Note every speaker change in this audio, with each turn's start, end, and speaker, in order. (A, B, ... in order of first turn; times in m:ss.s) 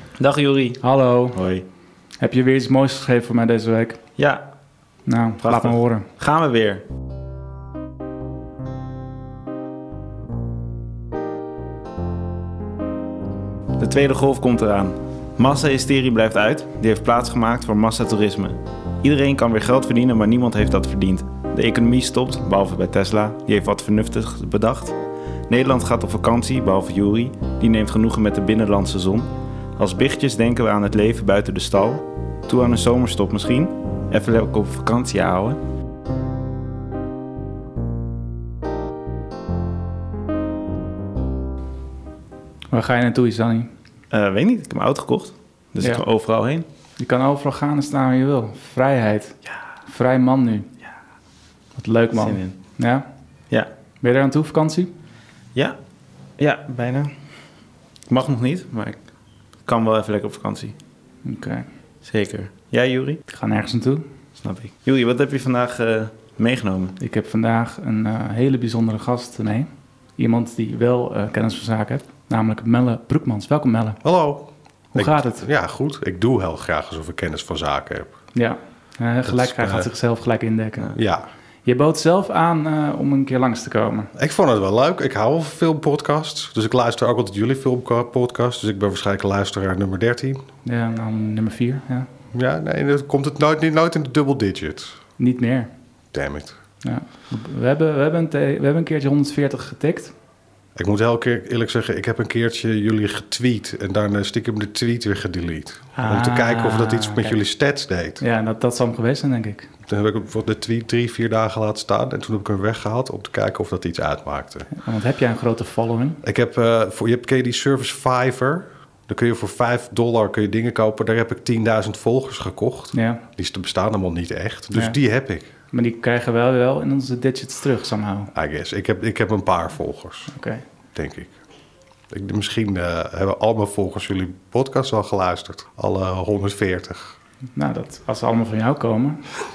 0:00.2-0:00.8 A
0:00.8-0:01.4 B
0:01.3-0:01.6 A
0:02.2-0:04.0 B
0:04.2-0:04.4 A
0:05.1-0:06.1 B
0:05.4-0:06.8 A
0:13.8-0:25.0 A
0:25.5-0:35.6 A
0:42.7-0:43.7 B
0:44.1-0:46.6 A
0:47.0-0:50.7 B
0:51.8-0:53.1 B
0:52.1-0:52.6 A
0:54.0-0:54.9 B
0:56.4-0:57.2 A
0:58.1-0:59.0 A
0:59.6-1:00.7 A
1:01.2-1:01.7 B
1:02.0-1:03.2 A
1:03.3-1:04.0 B
1:04.4-1:07.0 A
1:07.0-1:14.0 B
1:14.0-1:18.1 C
1:15.0-1:15.4 B
1:18.3-1:20.9 B
1:19.2-1:19.9 C
1:20.9-1:21.3 C
1:21.6-1:24.1 B
1:24.2-1:30.4 C
1:30.6-1:32.1 B
1:32.3-1:35.0 C
1:35.2-1:35.7 B
1:36.1-1:36.6 C
1:36.8-1:40.1 B
1:40.8-1:48.2 C
1:46.0-1:47.4 B
1:48.2-1:49.7 B
1:49.9-1:54.7 C
1:54.7-1:56.2 B
1:56.2-2:05.5 C
2:02.9-2:03.2 B
2:05.7-2:08.3 B
2:08.3-2:10.3 C
2:10.3-2:10.6 B
2:11.0-2:11.3 C
2:12.1-2:17.2 C
2:17.6-2:19.4 B